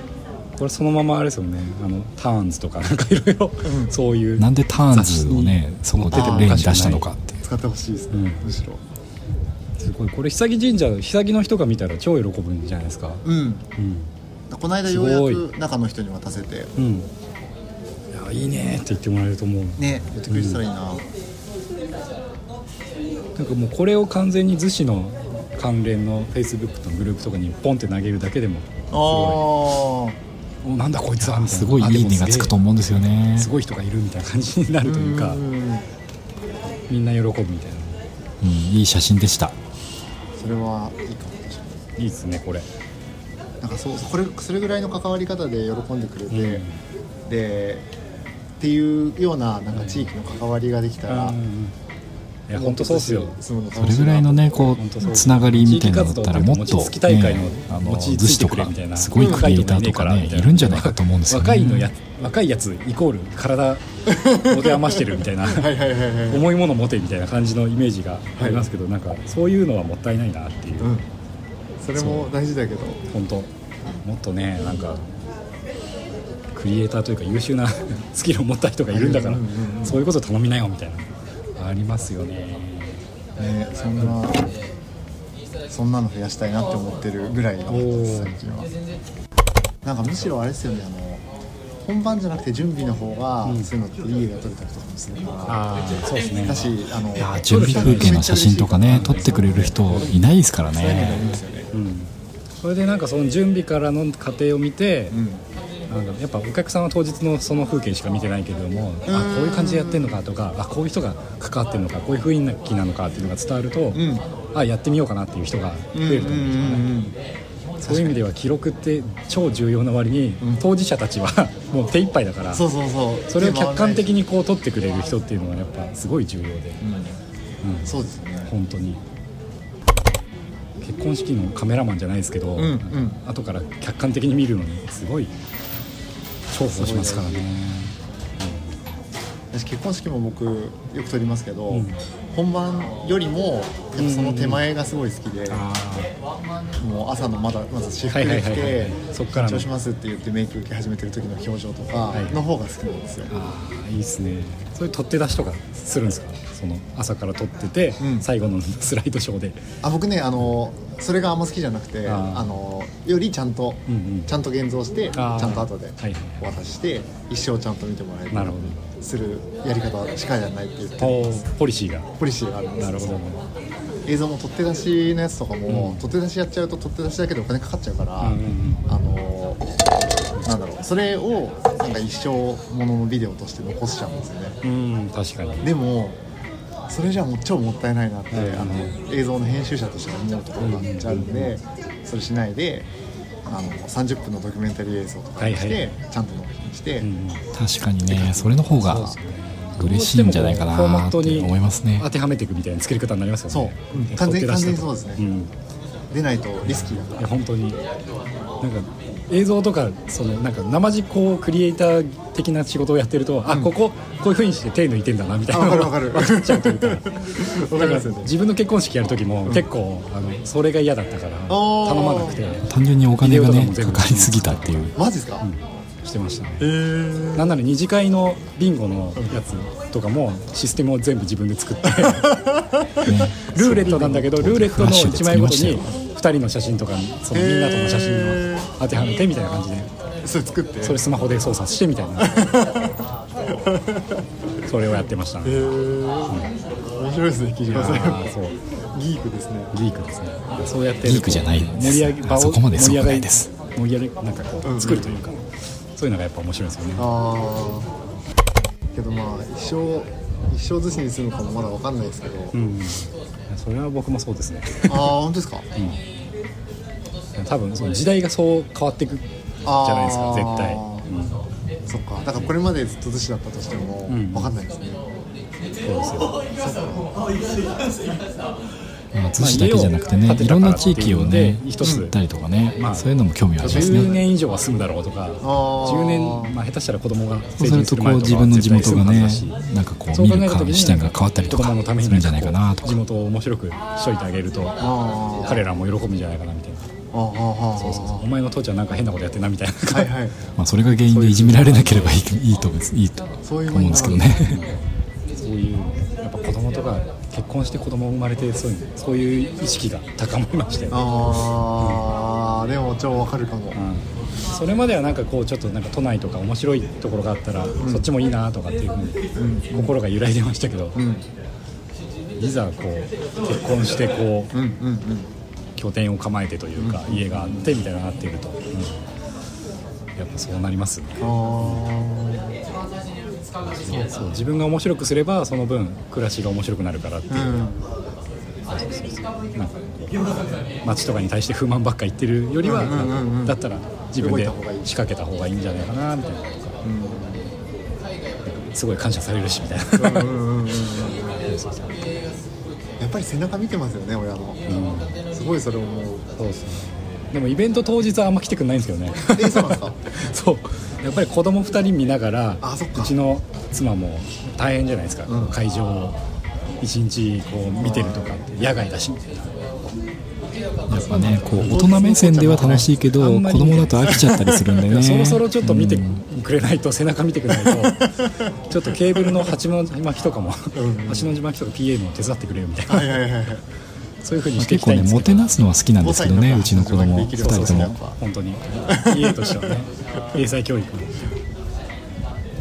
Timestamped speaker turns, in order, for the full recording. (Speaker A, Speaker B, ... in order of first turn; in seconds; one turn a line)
Speaker A: 0.6-7.1
Speaker B: 3.6-3.9
Speaker C: 4.4-7.4
Speaker B: 6.1-6.6
Speaker B: 7.4-8.8
Speaker A: 8.1-8.4
Speaker A: 9.8-13.2
Speaker B: 13.2-13.6
Speaker A: 13.8-14.1
Speaker B: 14.5-16.7
Speaker A: 14.8-15.4
Speaker A: 16.8-17.1
Speaker A: 18.1-20.6
Speaker B: 19.8-21.1
Speaker A: 23.4-29.4
Speaker B: 28.9-30.2
Speaker A: 30.6-35.4
Speaker C: 31.2-33.5
Speaker B: 34.8-35.9
Speaker A: 36.9-38.0
Speaker C: 38.4-39.5
Speaker B: 40.4-41.9
Speaker A: 42.0-42.7
Speaker B: 43.6-46.6
Speaker A: 46.3-46.8
Speaker B: 47.2-47.9
Speaker B: 48.6-51.4
Speaker A: 49.7-50.1
Speaker A: 51.1-51.8
Speaker A: 52.5-53.4
Speaker B: 52.5-54.6
Speaker C: 53.8-61.9
Speaker A: 54.8-65.7
Speaker B: 59.2-59.5
Speaker B: 64.1-66.5
Speaker A: 66.3-71.0
Speaker B: 68.4-68.7
Speaker B: 70.8-71.1
Speaker B: 71.8-73.0
Speaker A: 72.0-72.3
Speaker A: 73.1-73.5
Speaker A: 74.0-75.1
Speaker A: 76.5-83.0
Speaker B: 78.9-80.0
Speaker B: 83.4-84.5
Speaker B: 85.7-88.7
Speaker A: 87.7-88.4
Speaker B: 89.8-91.2
Speaker B: 91.8-95.6
Speaker A: 95.4-96.7
Speaker B: 96.4-100.0
Speaker C: 97.2-101.3
Speaker A: 97.5-98.2
Speaker A: 98.8-100.2
Speaker B: 100.7-101.7
Speaker A: 101.7-105.2
Speaker B: 105.1-105.4
Speaker A: 105.9-114.0
Speaker B: 109.1-110.2
Speaker B: 113.9-114.3
Speaker A: 114.5-116.9
Speaker B: 115.9-117.2
Speaker A: 117.8-122.7
Speaker B: 117.8-118.2
Speaker B: 122.5-124.1
Speaker A: 123.3-126.8
Speaker B: 126.8-127.2
Speaker A: 127.6-127.9
Speaker B: 127.8-128.5
Speaker A: 128.4-129.0
Speaker A: 130.8-135.3
Speaker B: 132.6-133.2
Speaker A: 136.5-138.9
Speaker B: 136.6-137.4
Speaker B: 139.5-145.7
Speaker A: 141.7-142.0
Speaker A: 144.0-144.6
Speaker A: 145.5-146.2
Speaker B: 146.8-153.3
Speaker A: 148.1-149.7
Speaker A: 152.1-152.4
Speaker A: 153.3-159.6
Speaker B: 158.0-158.3
Speaker B: 159.8-171.5
Speaker A: 162.1-162.5
Speaker A: 163.9-164.3
Speaker A: 165.1-166.4
Speaker A: 168.3-168.9
Speaker A: 171.0-172.1
Speaker B: 172.2-173.2
Speaker A: 172.8-173.5
Speaker B: 174.0-179.6
Speaker A: 175.7-176.0
Speaker A: 178.2-178.8
Speaker B: 180.4-184.6
Speaker A: 184.6-185.7
Speaker B: 185.6-186.2
Speaker B: 186.9-192.9
Speaker A: 188.3-188.9
Speaker A: 190.6-191.5
Speaker B: 193.4-197.1
Speaker A: 195.4-195.8
Speaker A: 197.0-197.5
Speaker C: 197.5-199.2
Speaker A: 198.1-205.5
Speaker C: 199.8-202.1
Speaker B: 203.5-205.2
Speaker B: 206.1-207.3
Speaker A: 206.6-207.8
Speaker A: 208.6-222.7
Speaker B: 215.5-218.3
Speaker B: 221.5-222.4
Speaker C: 222.7-224.9
Speaker A: 223.2-226.7
Speaker B: 224.9-225.4
Speaker B: 226.6-227.5
Speaker A: 227.3-232.3
Speaker B: 231.8-233.0
Speaker C: 233.0-235.8
Speaker A: 233.3-239.9
Speaker B: 233.9-234.2
Speaker B: 237.3-238.7
Speaker B: 240.2-241.0
Speaker A: 240.8-242.4
Speaker B: 242.2-244.2
Speaker A: 244.6-245.7
Speaker B: 245.4-248.3
Speaker A: 246.3-246.5
Speaker A: 247.7-248.6
Speaker B: 248.9-249.7
Speaker A: 249.7-257.1
Speaker C: 251.0-253.5
Speaker B: 254.6-255.3
Speaker B: 256.9-257.9
Speaker B: 258.9-262.5
Speaker A: 262.5-265.2
Speaker B: 264.9-265.6
Speaker A: 265.8-266.0
Speaker A: 267.4-271.4
Speaker B: 269.6-271.1
Speaker B: 271.9-275.1
Speaker A: 274.1-274.5
Speaker A: 275.8-276.4
Speaker B: 276.6-277.1
Speaker C: 279.1-284.1
Speaker A: 279.4-282.1
Speaker B: 281.8-282.1
Speaker A: 282.7-283.1
Speaker B: 283.6-284.2
Speaker A: 283.6-289.6
Speaker B: 285.4-286.6
Speaker C: 287.6-292.9
Speaker A: 290.1-294.7
Speaker B: 294.8-295.6
Speaker A: 295.4-296.9
Speaker B: 297.1-298.2
Speaker A: 297.8-300.1
Speaker B: 299.9-300.4
Speaker C: 300.6-304.7
Speaker A: 301.1-302.2
Speaker B: 303.4-304.3
Speaker A: 305.4-311.3
Speaker B: 310.9-313.8
Speaker A: 311.8-312.1
Speaker A: 313.7-321.0
Speaker B: 317.8-318.1
Speaker B: 319.4-319.9
Speaker B: 320.9-321.2
Speaker A: 322.4-324.5
Speaker B: 324.5-325.3
Speaker A: 325.8-329.0
Speaker B: 326.8-327.7
Speaker A: 330.1-331.8
Speaker B: 331.2-332.6
Speaker A: 333.9-337.6
Speaker B: 337.3-337.8
Speaker A: 338.7-340.2
Speaker A: 340.8-346.8
Speaker B: 342.6-343.6
Speaker B: 344.2-344.9
Speaker B: 346.8-347.5
Speaker A: 348.4-350.3
Speaker B: 349.9-351.5
Speaker A: 351.4-352.2
Speaker B: 353.0-354.6
Speaker A: 354.7-355.2
Speaker B: 355.2-356.3
Speaker A: 356.4-366.2
Speaker B: 359.3-360.0
Speaker B: 362.6-363.1
Speaker B: 365.3-365.6
Speaker A: 366.8-369.9
Speaker B: 367.8-368.4
Speaker C: 370.9-376.2
Speaker B: 371.1-372.9
Speaker A: 371.1-371.7
Speaker A: 372.6-374.3
Speaker A: 374.9-378.1
Speaker B: 377.5-379.5
Speaker A: 378.7-383.1
Speaker B: 380.7-381.4
Speaker B: 382.9-383.6
Speaker A: 384.2-385.5
Speaker C: 384.6-388.0
Speaker B: 386.0-388.2
Speaker A: 387.4-391.4
Speaker B: 388.9-389.8